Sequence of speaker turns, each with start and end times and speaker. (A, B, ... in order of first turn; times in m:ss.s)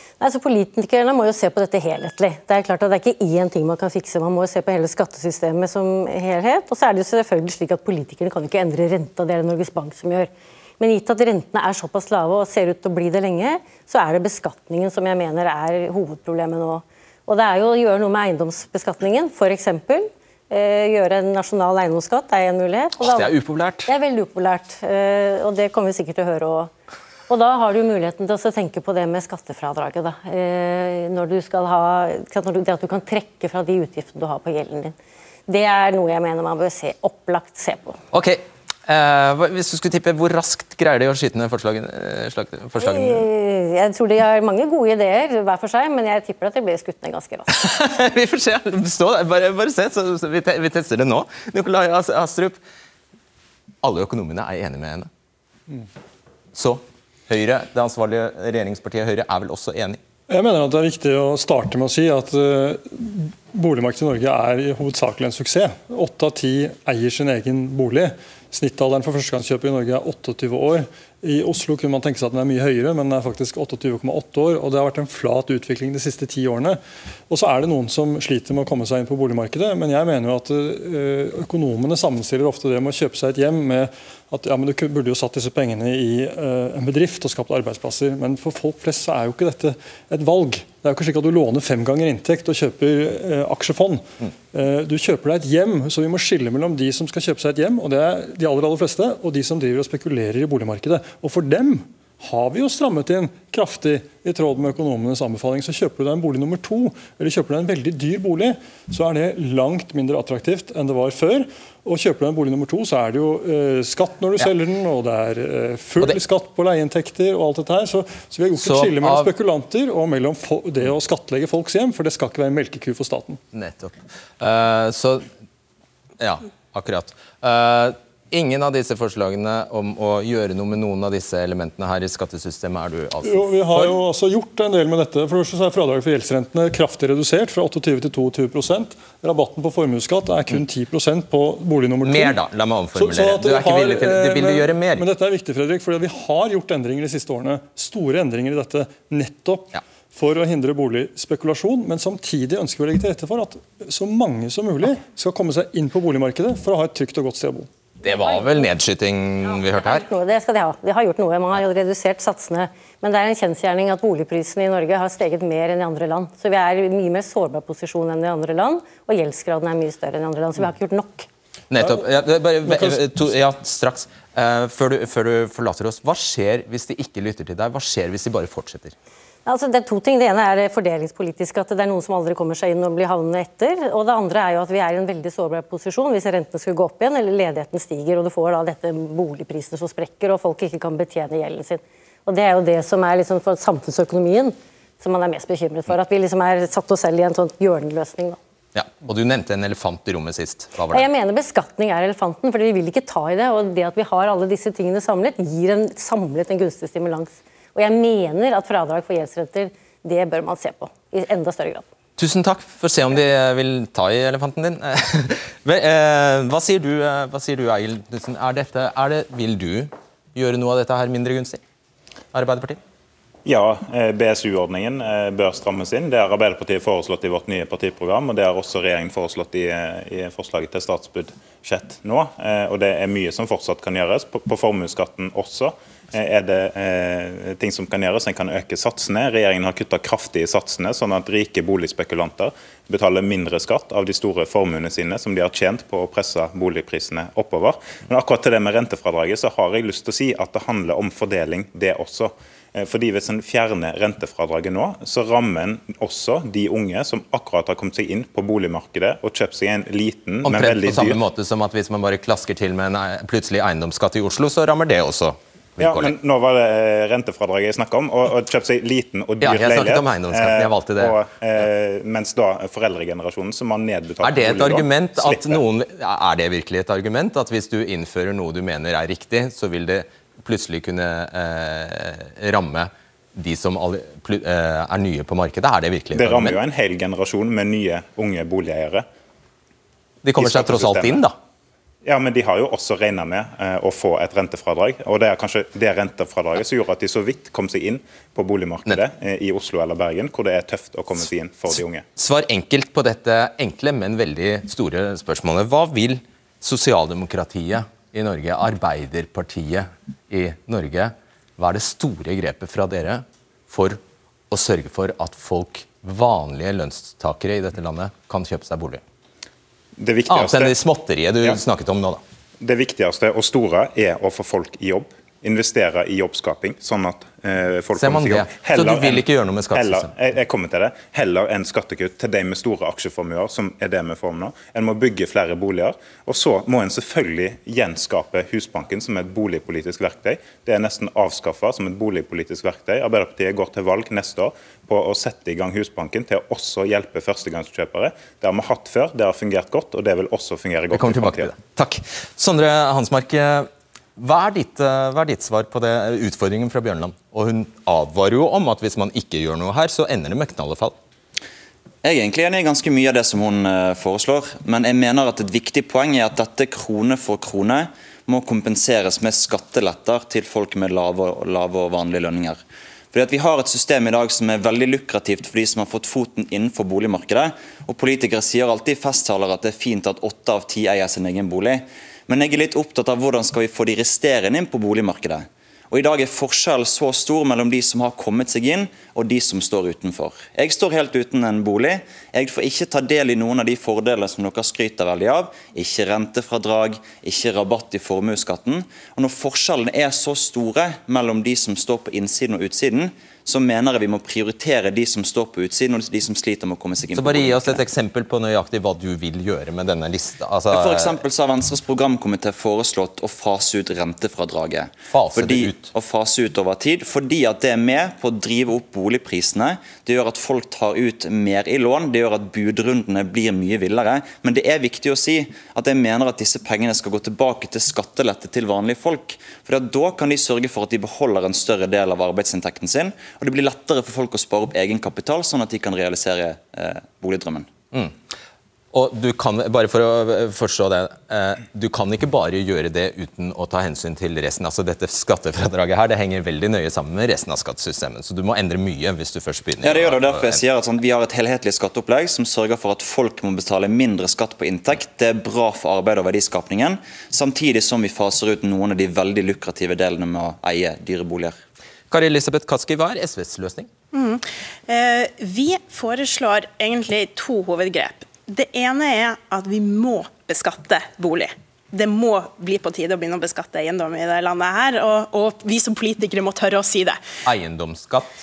0:00.2-0:23.3 A
0:23.0-0:23.9 B
0:23.9-0:26.7 A
0:27.3-0:35.0 A
0:35.5-0:38.0 A
0:38.1-0:43.2 B
0:42.8-0:47.5 A
0:47.5-0:52.6 B
0:53.8-0:55.1 B
0:56.5-1:00.0 B
1:00.3-2:03.4 C
1:58.6-1:59.3 B
2:03.5-2:05.2 B
2:06.2-2:14.0 B
2:13.2-2:22.4 C
2:22.0-2:25.1 B
2:23.0-2:37.7 C
2:38.0-2:40.1 B
2:38.1-2:38.5 A
2:39.8-2:51.3 A
2:51.7-2:58.9 B
2:52.7-2:53.0 C
2:59.5-3:18.4 A
3:18.7-3:21.1 B
3:20.9-3:31.8 A
3:32.2-3:41.6 B
3:42.3-3:42.8 B
3:43.4-4:21.2 D
4:20.4-4:26.1 B
4:25.8-4:35.6 D
4:29.4-4:31.6 B
4:34.2-4:46.6 B
4:46.2-4:49.1 D
4:50.2-4:51.4 B
4:50.4-4:51.2 D
4:52.0-5:02.0 D
5:02.2-5:19.0 B
5:20.0-5:20.7 D
5:20.3-5:22.2 B
5:22.6-5:51.6 D
5:28.0-5:30.1 B
5:50.9-6:01.0 B
6:02.0-6:12.6 E
6:13.1-6:47.8 E
6:47.2-6:51.2 B
6:50.7-7:17.7 E
6:55.1-6:55.9 B
7:18.9-7:30.6 B
7:29.8-7:41.6 E
7:42.1-7:43.9 B
7:44.1-7:57.2 F
7:57.4-7:58.3 B